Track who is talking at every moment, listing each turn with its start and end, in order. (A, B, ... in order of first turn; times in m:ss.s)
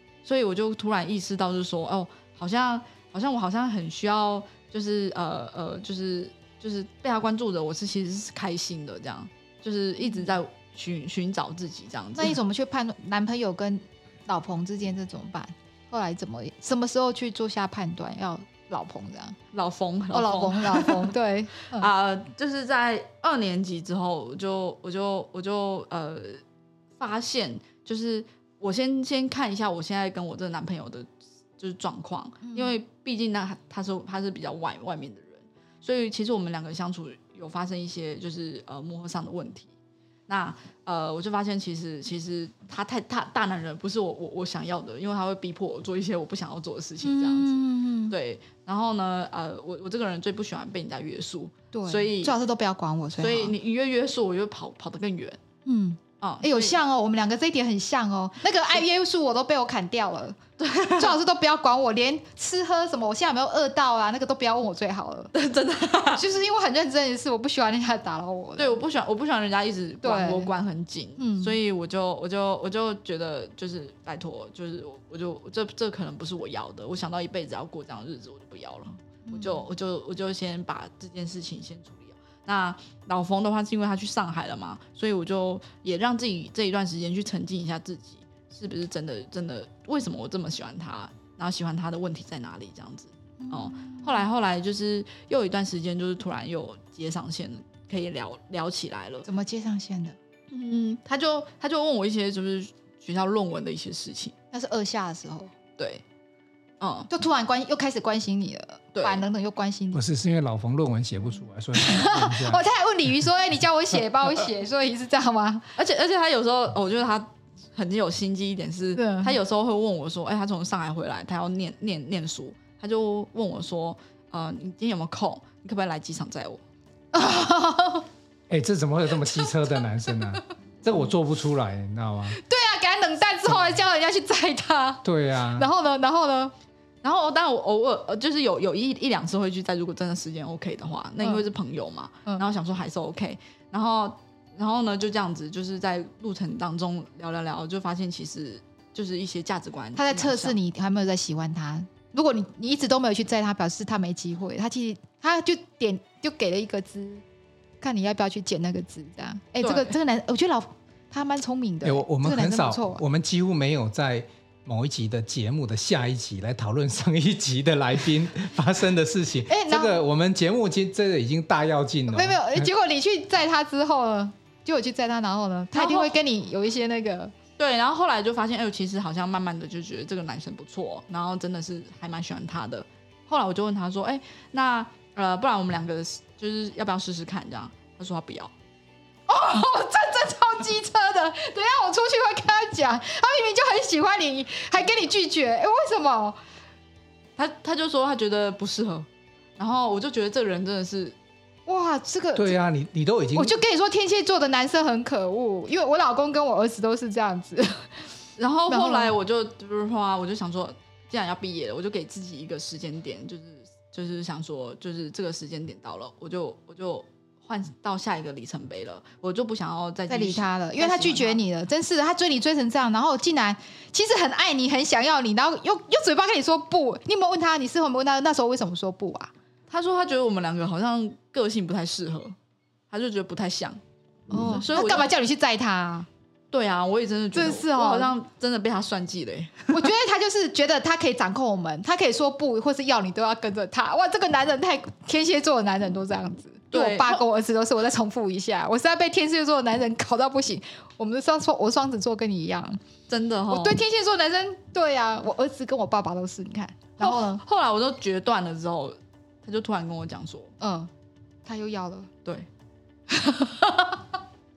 0:00.2-0:12.4 A
0:12.1-0:19.4 B
0:19.5-0:21.1 A
0:20.1-0:21.9 B
0:21.7-0:26.4 A
0:27.0-0:39.7 A
0:32.4-0:32.8 B
0:40.3-0:52.4 A
0:47.0-0:48.1 B
0:51.7-0:53.5 B
0:53.2-0:55.4 A
0:55.6-1:00.4 B
0:56.2-0:56.8 A
1:00.6-1:01.2 A
1:01.0-1:05.3 B
1:05.3-1:06.2 A
1:06.1-1:08.8 B
1:08.6-1:39.3 A
1:10.0-1:10.5 B
1:11.2-1:11.6 B
1:19.3-1:19.7 B
1:33.4-1:34.3 B
1:39.2-1:40.2 B
1:40.5-1:44.3 A
1:44.5-1:45.5 B
1:45.8-1:46.0 A
1:46.8-1:47.1 A
1:47.1-1:50.0 B
1:48.9-1:49.2 A
1:49.9-1:52.6 C
1:51.8-1:55.7 B
1:55.8-2:06.6 A
1:59.0-1:59.4 B
2:07.1-2:08.1 B
2:08.5-2:12.4 C
2:09.2-2:10.1 B
2:12.3-2:16.5 B
2:15.0-2:15.7 C
2:17.0-2:30.6 A
2:30.0-2:37.2 B
2:37.8-2:43.0 B
2:39.6-2:39.9 A
2:41.8-2:52.7 C
2:49.5-2:50.0 B
2:52.1-2:57.3 B
2:55.7-2:56.1 A
2:57.6-3:08.5 A
3:09.3-3:16.4 B
3:17.4-3:19.1 A
3:19.6-3:21.2 A
3:21.7-3:22.6 B
3:22.4-3:23.6 C
3:23.4-3:27.9 B
3:28.4-3:41.4 A
3:28.7-3:29.1 B
3:40.1-3:49.3 B
3:49.7-3:52.3 A
3:52.9-3:53.8 A
3:54.3-3:56.1 B
3:54.4-3:55.1 A
3:56.5-3:59.9 A
3:57.3-3:58.1 B
3:59.7-4:12.8 B
4:06.7-4:07.2 A
4:13.1-4:13.8 A
4:13.5-4:17.4 B
4:17.0-4:20.5 A
4:20.6-4:20.9 B
4:21.4-4:22.1 B
4:23.1-4:24.0 B